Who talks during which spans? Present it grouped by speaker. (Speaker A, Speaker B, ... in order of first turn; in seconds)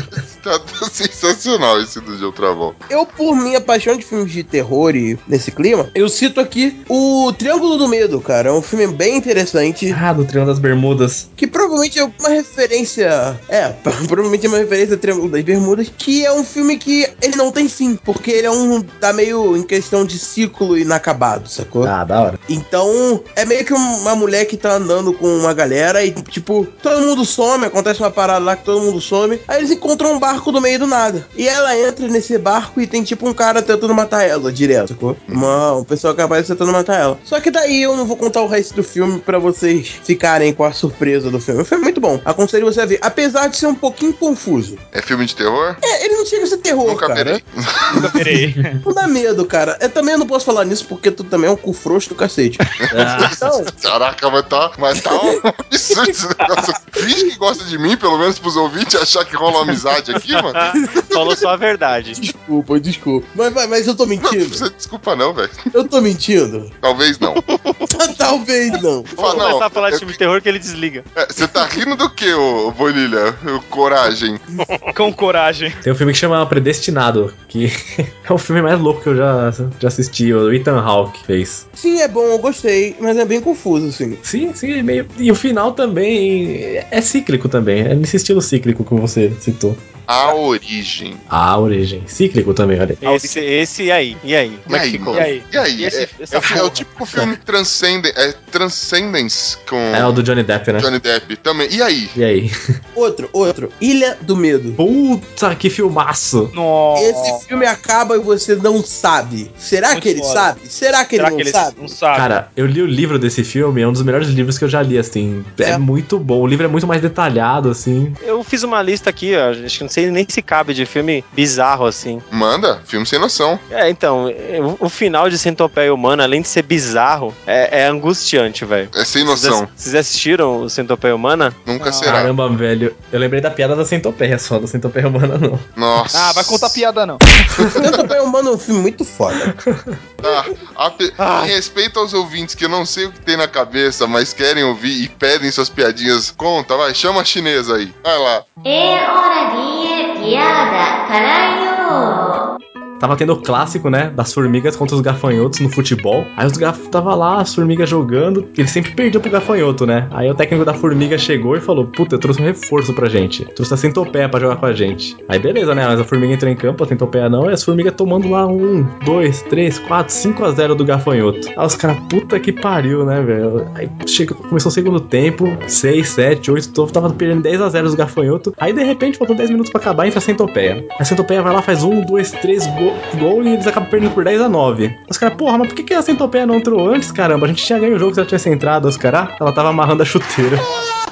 Speaker A: 0.1-2.8, 35.3-35.6, 44.9-45.8, 46.8-48.0, 52.8-61.2, 64.2-65.7, 66.8-67.4, 69.2-70.2, 71.2-74.4, 90.1-91.2, 94.7-100.2, 100.8-102.2, 122.3-123.6, 128.9-129.7, 131.7-132.3, 135.8-136.8, 137.6-138.0, 140.2-148.4
Speaker B: 2.9-10.0, 11.4-21.9, 22.5-44.8, 45.8-47.4, 47.9-48.2, 48.8-52.7, 53.4-53.7, 55.0-55.4, 62.2-64.7, 65.7-66.7, 67.9-69.5, 81.8-84.2, 103.0-104.8, 107.0-112.0, 137.7-139.6
Speaker C: 9.9-11.3, 21.8-22.4, 48.4-48.7, 52.9-53.5, 75.8-81.6, 84.2-89.9, 91.3-93.0, 99.9-100.9, 102.1-102.5, 104.8-106.5, 112.1-118.2, 132.1-135.7, 139.5-140.0, 153.0-190.7
Speaker D: 47.9-48.8, 74.9-75.8, 93.0-93.3, 95.1-96.9, 106.5-107.4, 109.9-110.5, 111.2-112.3, 131.8-132.2, 136.1-137.3
Speaker E: 60.3-62.2, 67.2-67.9, 69.2-71.5, 74.6-74.9, 93.0-95.3, 118.2-122.2, 123.7-131.6, 141.2-141.5
Speaker F: 148.6-152.4